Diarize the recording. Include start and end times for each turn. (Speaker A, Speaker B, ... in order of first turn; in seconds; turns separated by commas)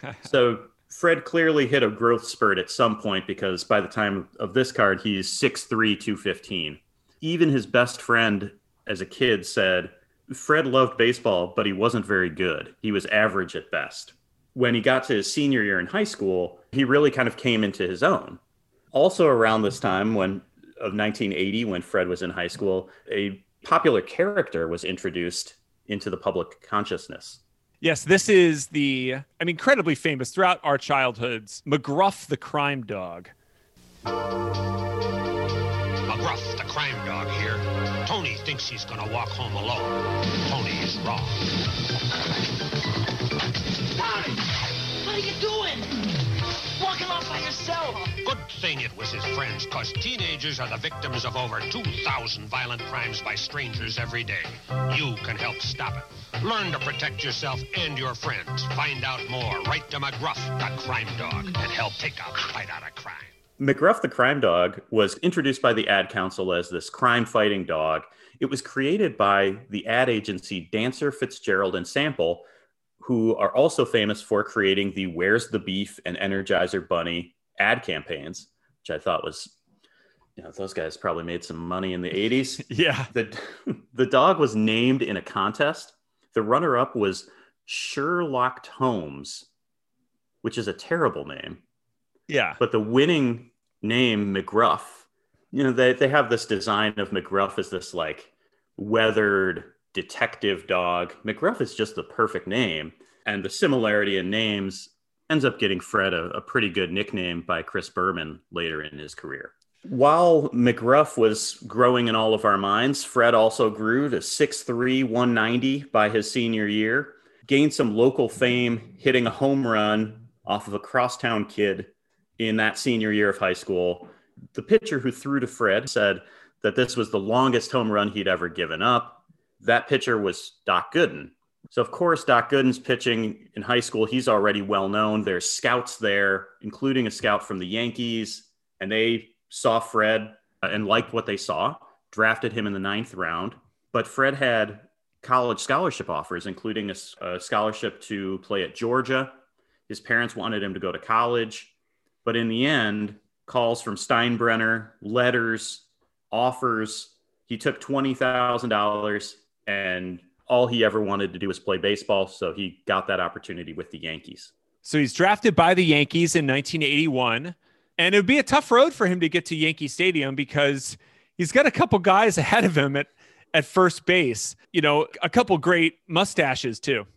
Speaker A: 0.2-18.4, Speaker A: 18.9-27.4, Speaker B: 27.8-33.3, Speaker C: 36.0-41.5, Speaker D: 43.9-44.5, Speaker D: 45.0-46.0, Speaker D: 46.7-48.2, Speaker C: 48.2-63.3, Speaker A: 63.6-72.4, Speaker A: 73.0-79.5, Speaker A: 80.4-89.5, Speaker B: 82.7-83.1, Speaker A: 90.4-91.6, Speaker B: 92.3-92.6, Speaker A: 92.6-149.3, Speaker A: 149.9-151.7, Speaker A: 152.2-164.5, Speaker B: 164.8-177.1